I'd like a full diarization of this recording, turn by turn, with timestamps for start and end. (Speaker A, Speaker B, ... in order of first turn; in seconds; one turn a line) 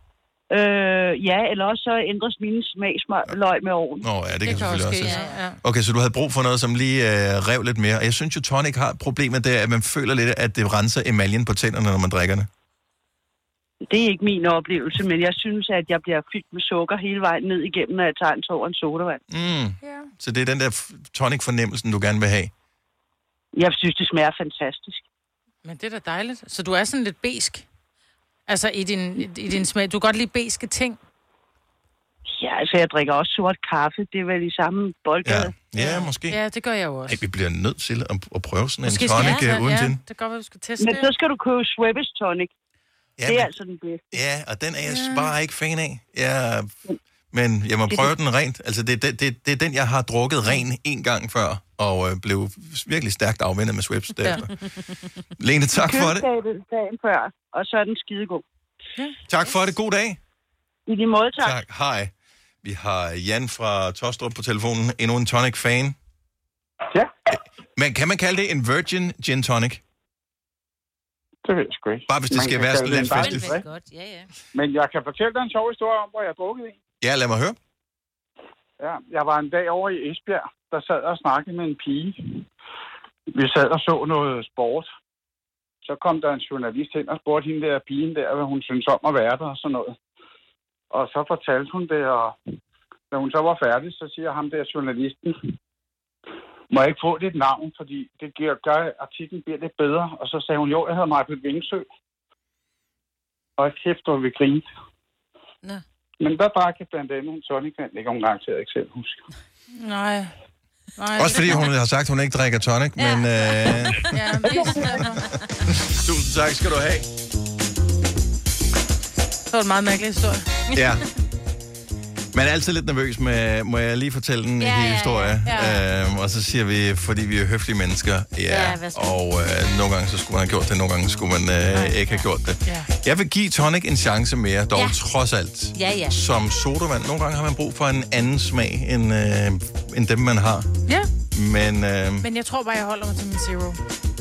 Speaker A: 0.5-4.0
Speaker B: 4.0-12.5
Speaker C: 4.5-5.6
Speaker D: 5.0-5.4
Speaker A: 13.9-19.2
Speaker B: 19.3-22.5
Speaker C: 19.8-20.1
Speaker A: 23.6-25.0
Speaker C: 25.6-27.6
Speaker C: 28.5-31.0
Speaker A: 32.3-35.5
Speaker B: 35.2-36.4
Speaker C: 35.8-37.2
Speaker B: 37.1-40.0
Speaker C: 38.8-41.1
Speaker D: 39.2-39.5
Speaker A: 40.8-42.5
Speaker B: 43.2-43.5
Speaker A: 43.2-44.0
Speaker B: 44.1-46.7
Speaker C: 44.9-45.3
Speaker B: 47.3-54.5
Speaker B: 55.4-56.3
Speaker A: 55.7-58.4
Speaker B: 59.3-60.2
Speaker A: 60.9-61.5
Speaker B: 61.4-62.1
Speaker B: 62.6-66.0
Speaker B: 67.4-69.8
Speaker E: 71.4-73.6
Speaker B: 72.1-73.6
Speaker D: 73.1-74.3
Speaker E: 74.5-76.7
Speaker B: 77.0-77.6
Speaker E: 78.8-82.4
Speaker E: 83.3-84.9
Speaker E: 85.8-89.9
Speaker E: 90.9-92.3
Speaker E: 93.1-95.5
Speaker E: 96.7-101.8
Speaker E: 103.6-104.7
Speaker E: 106.2-109.2
Speaker C: 109.8-110.3
Speaker C: 111.0-111.7
Speaker B: 111.2-114.1
Speaker D: 113.0-114.1
Speaker C: 114.1-115.2
Speaker B: 115.7-117.1
Speaker C: 119.5-120.5
Speaker D: 120.7-121.0
Speaker B: 120.7-121.0
Speaker B: 122.3-140.7
Speaker D: 124.6-125.4
Speaker C: 125.5-125.8
Speaker D: 128.5-129.2
Speaker D: 131.7-132.3
Speaker D: 135.7-136.2
Speaker B: 141.3-142.3
Speaker C: 142.2-143.8